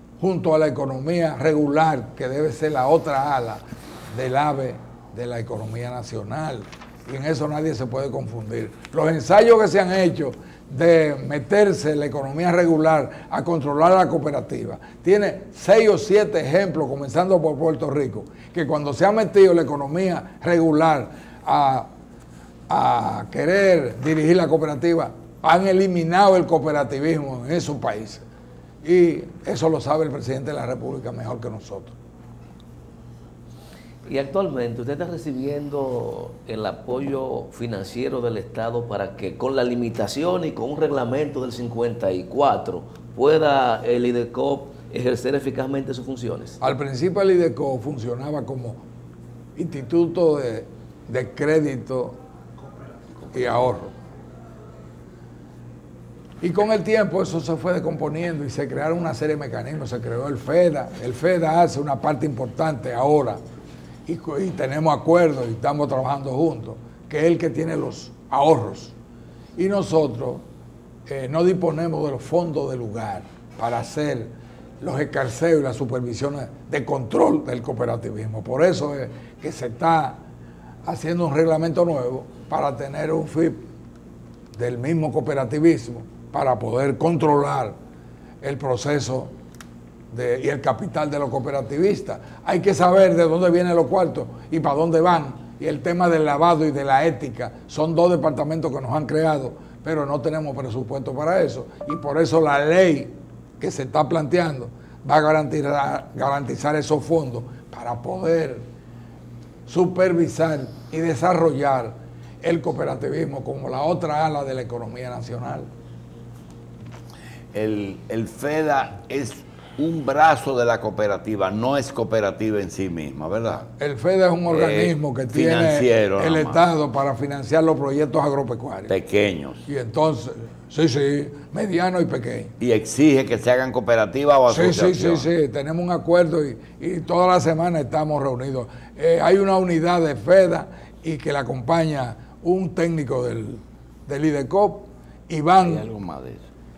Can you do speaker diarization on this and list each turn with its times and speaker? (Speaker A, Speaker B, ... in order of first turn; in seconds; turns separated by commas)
Speaker A: 0.2-21.9, Speaker A: 22.7-28.2, Speaker A: 28.8-32.0, Speaker B: 34.0-46.6, Speaker A: 46.6-48.8, Speaker A: 49.6-52.2, Speaker A: 53.3-54.0, Speaker A: 56.4-63.4, Speaker A: 64.1-69.0, Speaker A: 69.6-70.5, Speaker A: 71.1-80.2, Speaker A: 80.8-83.7, Speaker A: 84.5-87.8, Speaker A: 88.4-89.3, Speaker A: 90.1-108.7, Speaker A: 109.7-115.7, Speaker C: 117.5-123.7, Speaker A: 123.8-128.9, Speaker C: 124.5-126.6, Speaker C: 128.9-129.7, Speaker A: 129.7-132.5, Speaker C: 132.6-135.3, Speaker A: 134.5-145.9, Speaker C: 145.6-146.5